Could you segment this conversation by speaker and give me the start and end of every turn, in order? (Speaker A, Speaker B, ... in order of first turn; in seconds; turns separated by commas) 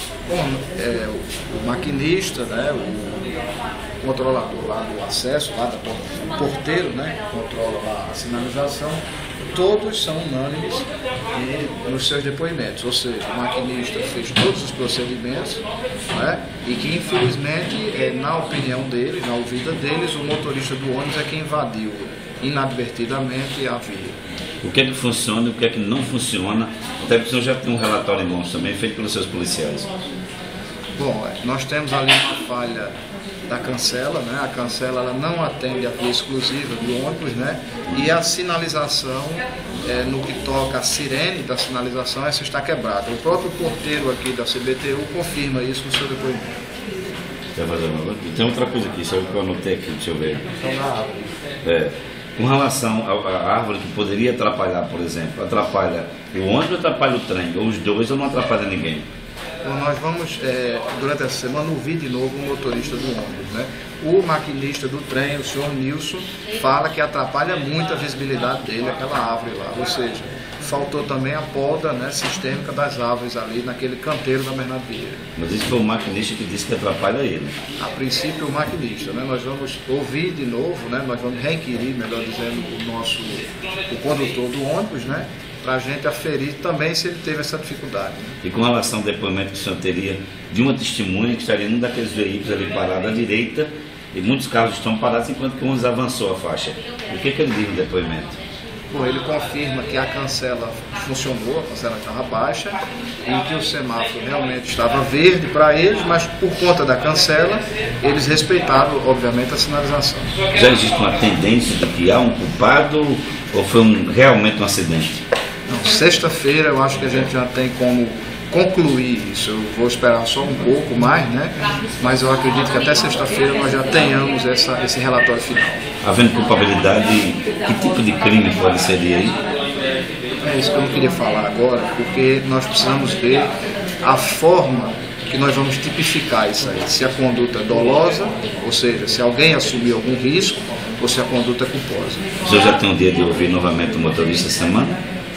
Speaker A: 0.2-3.3, Speaker A: 4.0-24.2, Speaker B: 24.6-29.9, Speaker A: 30.9-32.9, Speaker A: 33.5-46.5, Speaker B: 47.5-50.5, Speaker B: 51.6-59.0, Speaker A: 59.6-75.2, Speaker B: 75.4-77.6, Speaker A: 77.8-88.4, Speaker B: 88.4-98.3, Speaker A: 98.9-110.3, Speaker B: 110.5-115.2, Speaker A: 115.7-125.8, Speaker B: 126.0-129.4, Speaker A: 130.4-133.5, Speaker A: 134.0-142.2, Speaker B: 142.4-145.0